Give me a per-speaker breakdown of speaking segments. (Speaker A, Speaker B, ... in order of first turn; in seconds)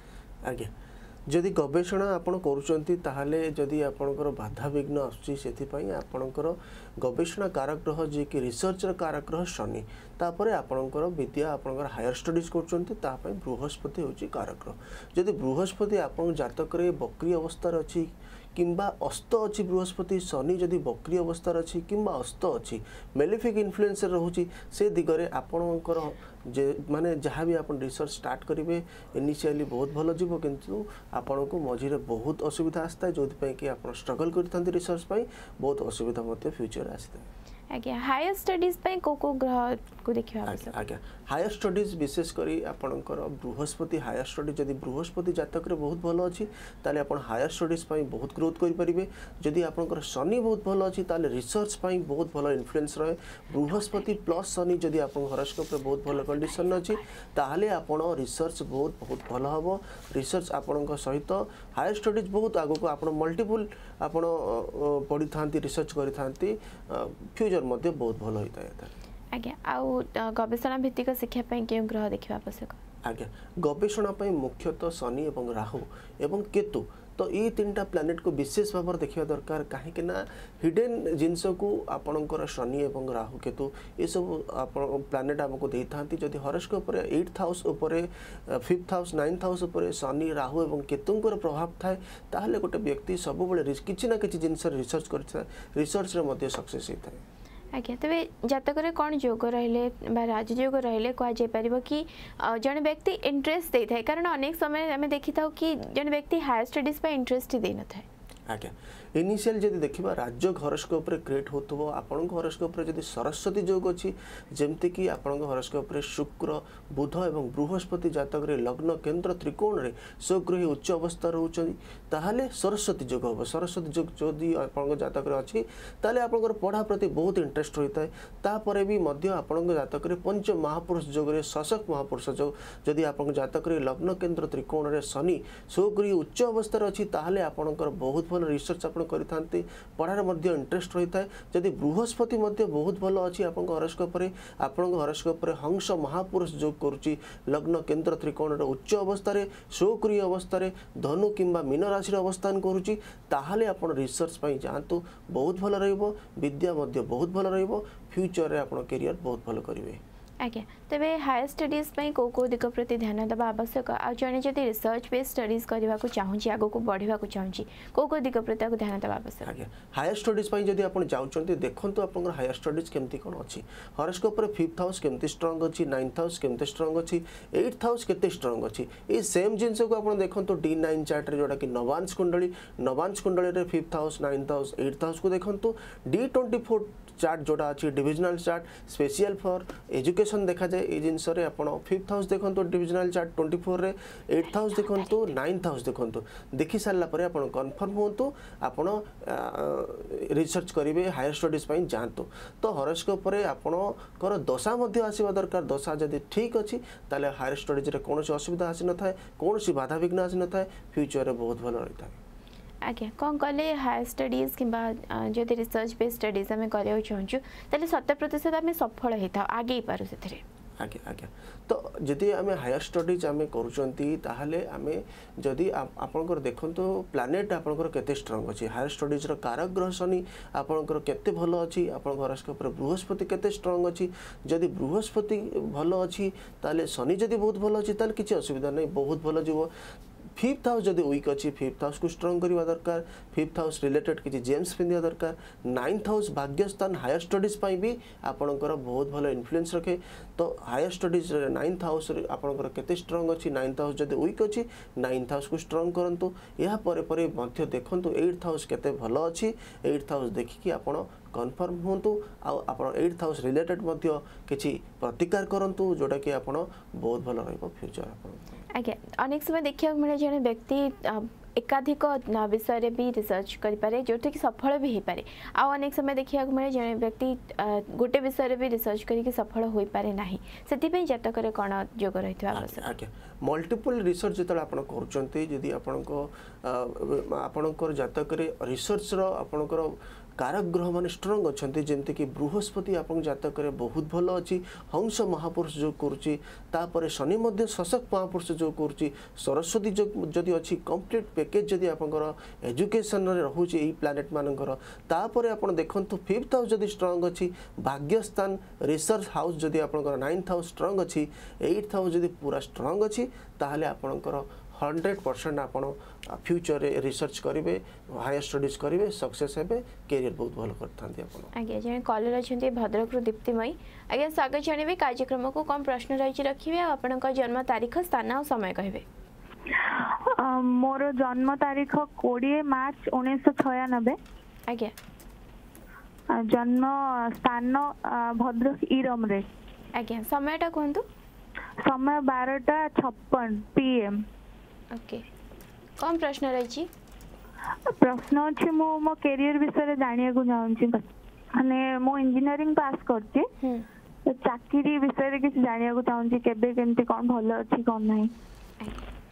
Speaker A: 0.4-0.7, 1.3-37.3, 40.5-68.9, 73.0-97.2, 108.5-160.0, 169.4-212.2, 220.8-239.7, 240.4-268.4, 282.5-321.5
Speaker B: 37.7-40.8, 69.3-72.8, 97.7-108.0, 160.4-169.5, 212.8-220.4, 268.7-282.9, 321.5-329.0, 334.7-334.9, 339.9-341.0, 344.9-345.2, 346.0-346.9, 353.6-353.8, 358.8-359.1
Speaker C: 329.7-334.2, 336.3-339.5, 341.8-344.2, 347.9-353.5, 354.2-358.3